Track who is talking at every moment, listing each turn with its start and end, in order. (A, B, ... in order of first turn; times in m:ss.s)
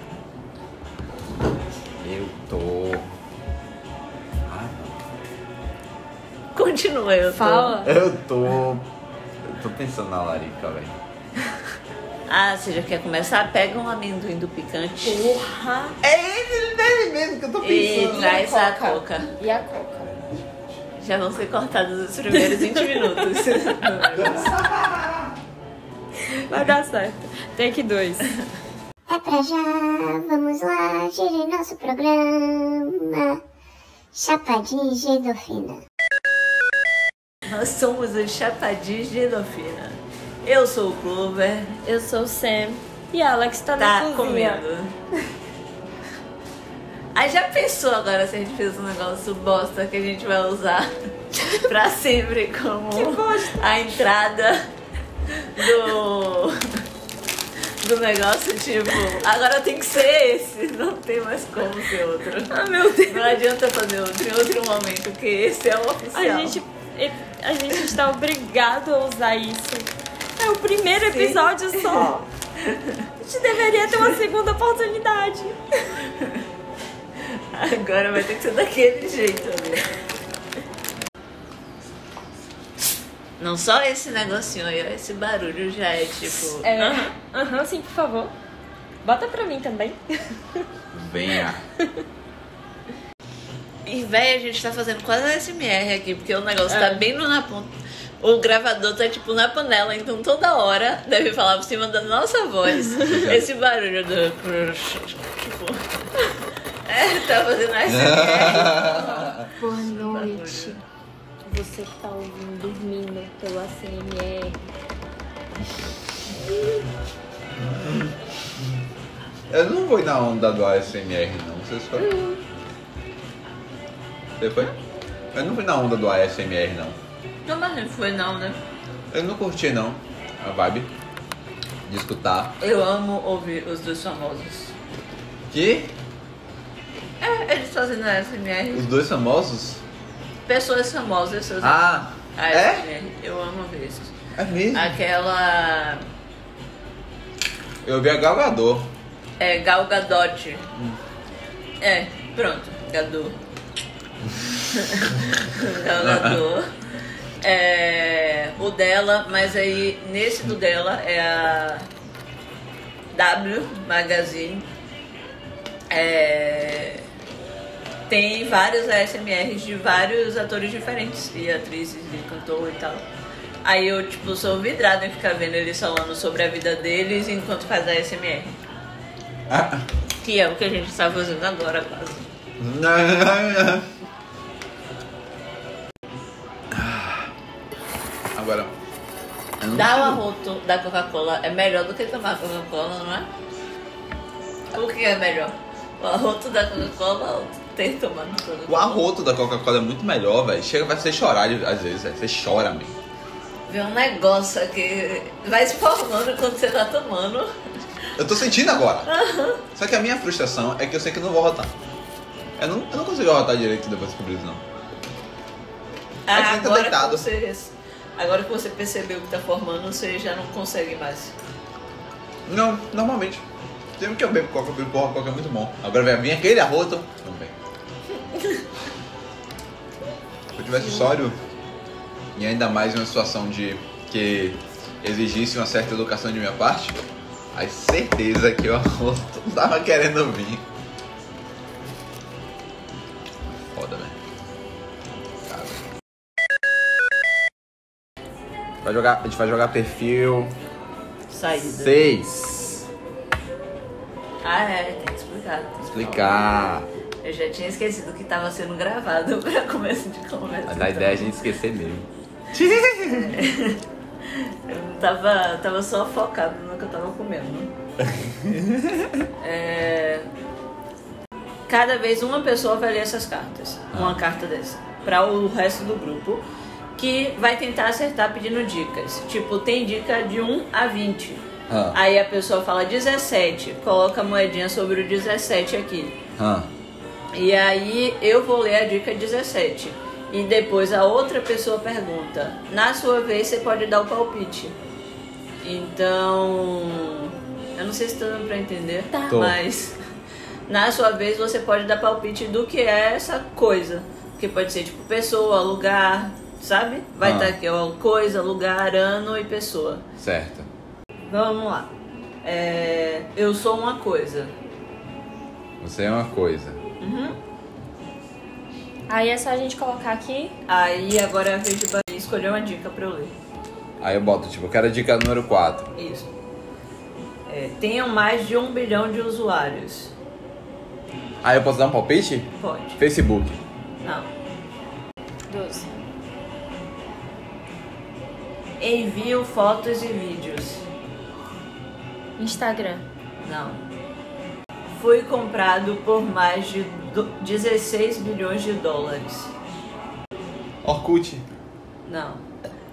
0:02.0-0:03.1 A
0:04.5-0:05.1 A
0:06.5-0:07.9 B
0:07.4-0:08.0 C
0:07.8-0:08.9 A
0:09.4-0:11.0 A
0:12.3-0:15.2 B
0:15.0-0:16.0 C
0:16.0-0:18.3 A
0:17.6-0:19.3 B
0:17.8-0:20.1 C
0:20.0-0:20.7 A
0:21.0-0:24.6 B
0:22.4-0:23.6 C
0:24.2-0:25.3 A
0:26.2-0:28.3 C
0:29.1-0:33.4 D
0:34.1-0:35.8 D
0:37.4-0:41.8 B
0:41.8-0:44.6 C
0:43.8-0:45.0 B
0:47.1-0:54.7 B
0:52.9-0:53.7 C
0:55.3-0:56.6 B
0:57.8-1:06.6 B
1:02.5-1:03.4 C
1:06.1-1:12.3 C
1:11.1-1:13.0 B
1:13.2-1:16.0 C
1:16.1-1:16.4 B
1:17.2-1:19.9 B
1:23.4-1:27.1 B
1:26.6-1:28.3 C
1:29.0-1:30.6 C
1:30.9-1:31.6 A
1:33.8-1:45.8 B
1:36.7-1:37.1 C
1:43.0-1:43.5 A
1:46.9-1:50.8 B
1:47.9-1:49.5 A
1:48.9-1:50.8 C
1:51.5-1:54.6 C
1:57.7-1:58.1 A
1:59.5-2:02.2 A
2:02.0-2:02.4 C
2:04.4-2:04.7 A
2:05.3-2:07.0 A
2:07.4-2:08.6 B
2:09.1-2:10.9 A
2:11.9-2:12.6 A
2:12.6-2:14.8 B
2:15.5-2:15.9 A
2:17.2-2:18.9 B
2:18.7-2:19.8 A
2:20.5-2:24.2 B
2:21.6-2:22.9 A
2:24.4-2:25.0 A
2:24.7-2:26.1 B
2:27.8-2:28.9 A
2:29.4-2:30.7 B
2:31.8-2:33.4 B
2:34.7-2:36.7 B
2:36.0-2:36.4 A
2:37.4-2:41.9 B
2:43.1-2:44.7 B
2:45.9-2:47.1 B
2:48.1-2:53.1 B
2:53.6-2:58.6 B
2:59.5-2:59.8 A
3:00.2-3:02.3 B
3:02.6-3:03.9 A
3:06.7-3:07.3 A
3:08.3-3:08.7 A
3:09.6-3:10.2 A
3:09.7-3:13.3 B
3:14.7-3:19.0 B
3:18.7-3:23.0 A
3:23.7-3:27.5 B
3:28.2-3:29.2 A
3:29.1-3:29.6 B
3:29.7-3:31.7 A
3:32.6-3:34.6 A
3:36.3-3:41.4 B
3:36.3-3:37.3 A
3:42.5-3:43.4 A
3:44.0-3:47.6 A
3:48.4-3:48.6 B
3:50.6-3:51.4 A
3:50.8-3:51.2 B
3:52.4-3:57.0 A
3:57.5-4:00.6 A
4:03.7-4:04.2 A
4:05.5-4:05.8 A
4:08.8-4:10.6 A
4:11.3-4:12.1 B
4:11.6-4:12.8 A
4:14.4-4:16.5 B
4:15.8-4:16.9 A
4:17.2-4:21.4 B
4:20.7-4:23.2 A
4:22.8-4:27.8 B
4:28.1-4:29.3 A
4:29.4-4:30.3 B
4:31.7-4:36.4 B
4:33.9-4:34.2 A
4:37.0-4:46.2 B
4:41.7-4:42.0 A
4:46.4-4:46.7 A
4:47.3-4:54.8 B
4:55.6-5:00.0 B
4:59.3-4:59.6 A
5:00.7-5:10.1 B
5:07.2-5:07.6 A
5:10.2-5:10.7 A
5:11.2-5:11.9 B
5:12.4-5:14.6 B
5:15.8-5:16.8 A
5:17.0-5:17.4 B
5:19.1-5:20.6 C
5:20.7-5:23.4 B
5:24.0-5:25.9 A
5:26.0-5:26.3 B
5:27.5-5:30.1 B
5:31.4-5:33.6 A
5:32.6-5:33.0 B
5:34.0-5:34.3 B
5:35.5-5:36.0 C
5:38.8-5:40.8 B
5:42.4-5:43.1 C
5:43.4-5:43.8 B
5:44.9-5:49.5 B
5:50.8-5:51.4 A
5:52.1-5:52.5 B